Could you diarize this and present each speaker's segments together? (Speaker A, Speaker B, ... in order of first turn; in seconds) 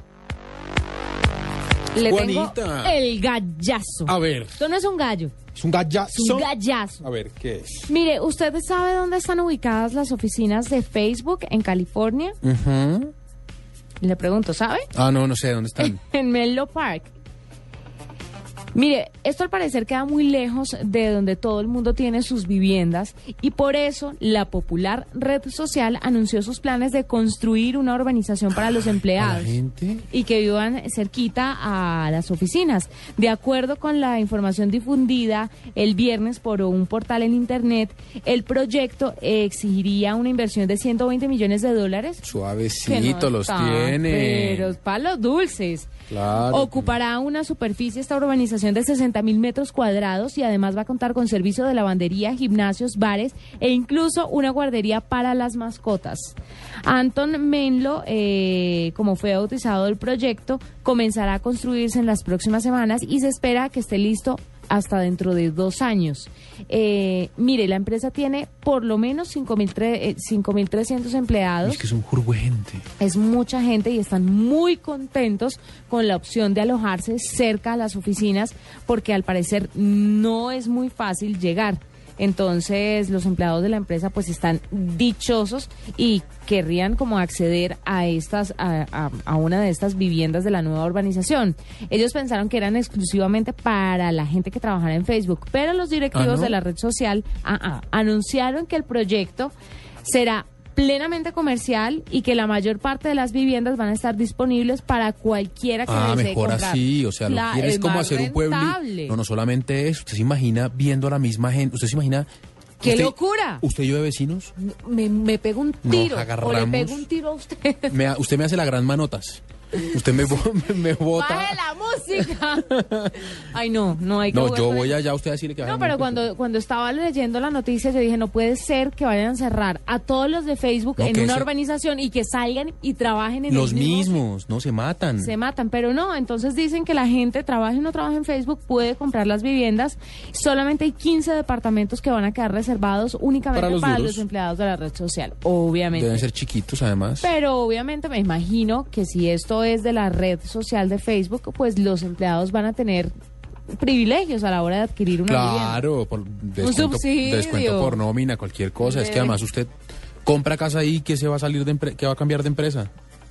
Speaker A: 1.9-5.3, 6.1-7.1, 7.9-12.3, 14.0-14.9, 15.8-17.1, 18.7-42.2, 42.8-45.9, 46.4-71.8, 73.0-109.2, 112.8-113.6, 114.6-117.9, 121.1-125.0, 125.6-134.2, 135.2-146.3, 147.2-153.1, 153.7-155.8, 156.6-158.0, 158.8-159.4
Speaker B: 2.0-3.0, 4.0-4.6, 5.5-6.5, 7.0-7.9, 12.4-13.1, 14.9-16.0, 29.1-30.0, 42.2-44.8, 46.1-46.9, 71.6-72.8, 96.1-96.6, 105.9-112.3, 112.8-114.5, 115.8-117.0, 117.9-121.6, 122.5-123.2, 124.3-126.3, 131.0-131.5, 133.5-135.3, 143.5-144.2, 145.9-147.3, 155.2-159.7, 160.2-162.9